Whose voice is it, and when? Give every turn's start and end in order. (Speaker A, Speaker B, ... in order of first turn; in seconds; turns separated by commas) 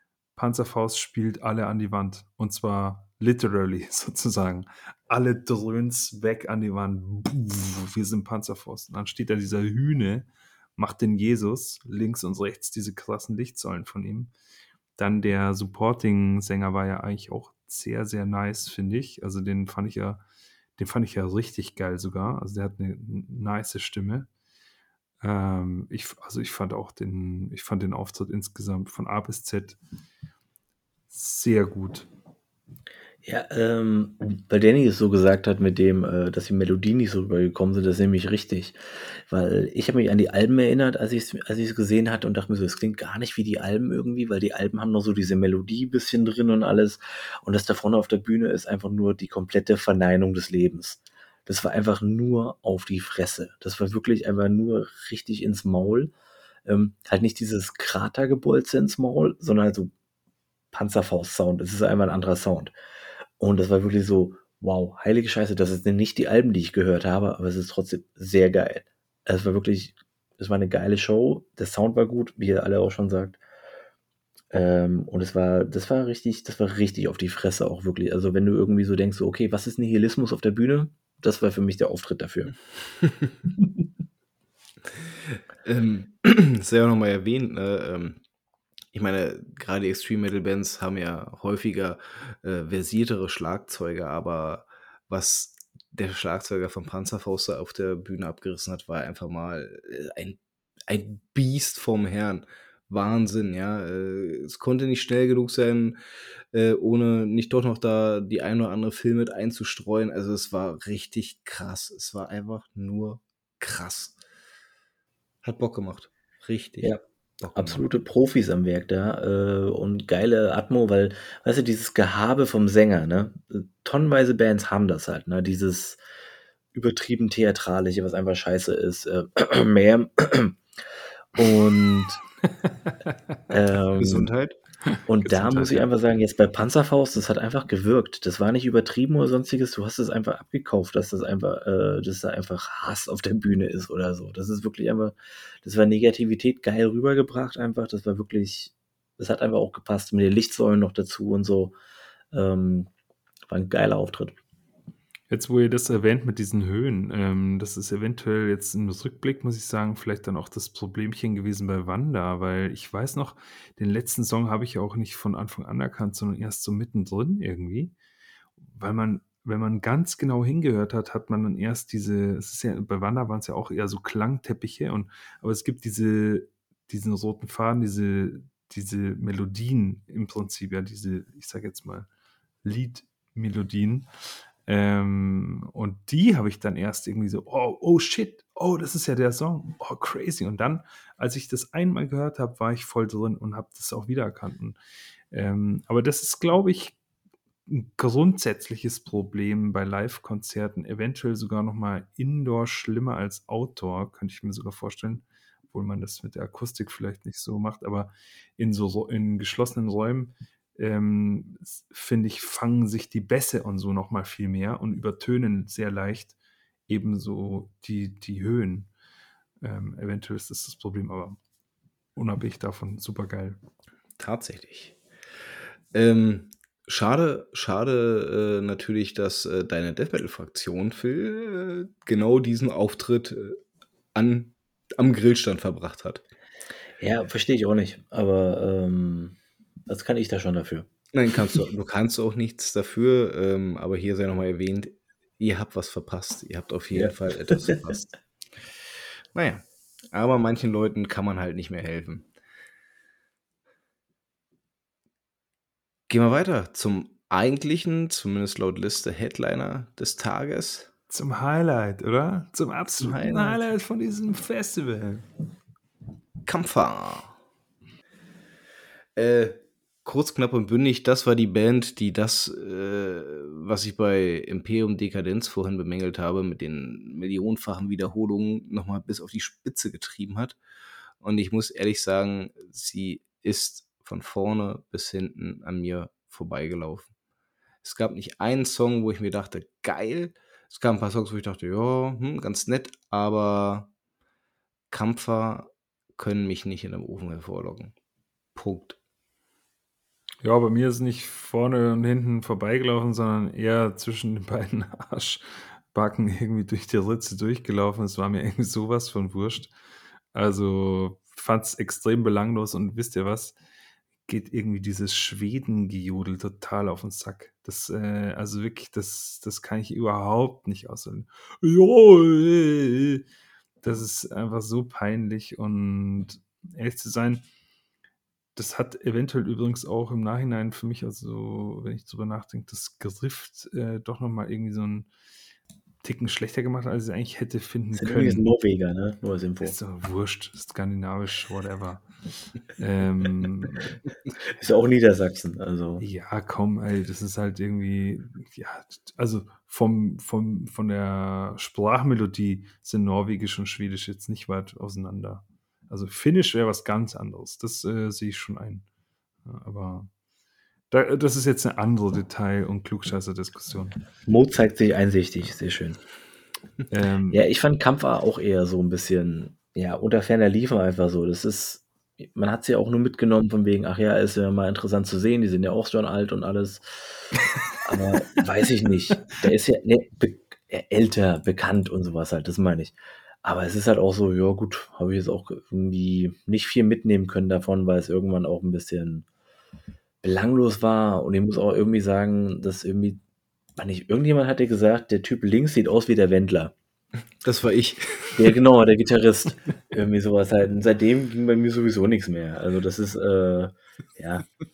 Speaker A: 0.4-14.3, Speaker A: 15.0-20.2, Speaker A: 20.8-24.3, Speaker A: 25.2-29.8, Speaker A: 31.1-32.1, Speaker B: 33.2-56.1, Speaker B: 56.7-59.9, Speaker B: 60.7-62.7, Speaker B: 63.4-73.4, Speaker B: 74.5-82.5, Speaker C: 83.0-83.3, Speaker C: 85.4-88.2, Speaker C: 88.9-106.0, Speaker C: 106.5-114.2, Speaker C: 115.4-117.8, Speaker B: 117.5-126.0, Speaker B: 126.7-130.6, Speaker B: 131.3-132.2, Speaker B: 133.5-134.3, Speaker C: 134.0-134.6, Speaker A: 134.9-135.9, Speaker B: 135.1-151.8, Speaker B: 152.3-152.9, Speaker B: 153.5-154.4, Speaker A: 155.3-167.9, Speaker A: 168.7-182.1, Speaker A: 182.6-184.1, Speaker A: 184.7-194.8, Speaker A: 195.3-197.0, Speaker A: 197.7-216.3, Speaker A: 216.9-218.9, Speaker A: 219.6-221.4, Speaker A: 222.2-223.6, Speaker C: 224.2-225.0, Speaker C: 225.9-233.6, Speaker C: 234.1-236.3, Speaker B: 237.0-239.4, Speaker B: 239.9-240.9, Speaker C: 241.1-248.2, Speaker B: 246.9-247.8, Speaker C: 249.3-252.3, Speaker C: 256.1-260.9, Speaker A: 261.1-265.3, Speaker C: 263.0-263.7, Speaker C: 266.5-267.4, Speaker C: 269.2-280.6, Speaker C: 281.2-287.1, Speaker C: 287.8-293.9, Speaker C: 294.9-297.9, Speaker C: 298.6-299.0, Speaker A: 300.4-309.7, Speaker A: 310.3-313.6, Speaker A: 314.3-323.2, Speaker A: 323.8-327.4, Speaker A: 328.6-335.1, Speaker A: 336.0-338.5, Speaker B: 337.9-339.8, Speaker A: 339.6-344.0, Speaker B: 344.6-346.1, Speaker A: 346.0-358.9, Speaker A: 359.4-360.1, Speaker A: 360.9-364.0, Speaker B: 364.3-366.0, Speaker A: 366.9-367.4, Speaker B: 367.3-389.3, Speaker B: 390.2-393.2, Speaker B: 393.8-396.7, Speaker C: 397.4-398.5, Speaker B: 398.4-404.5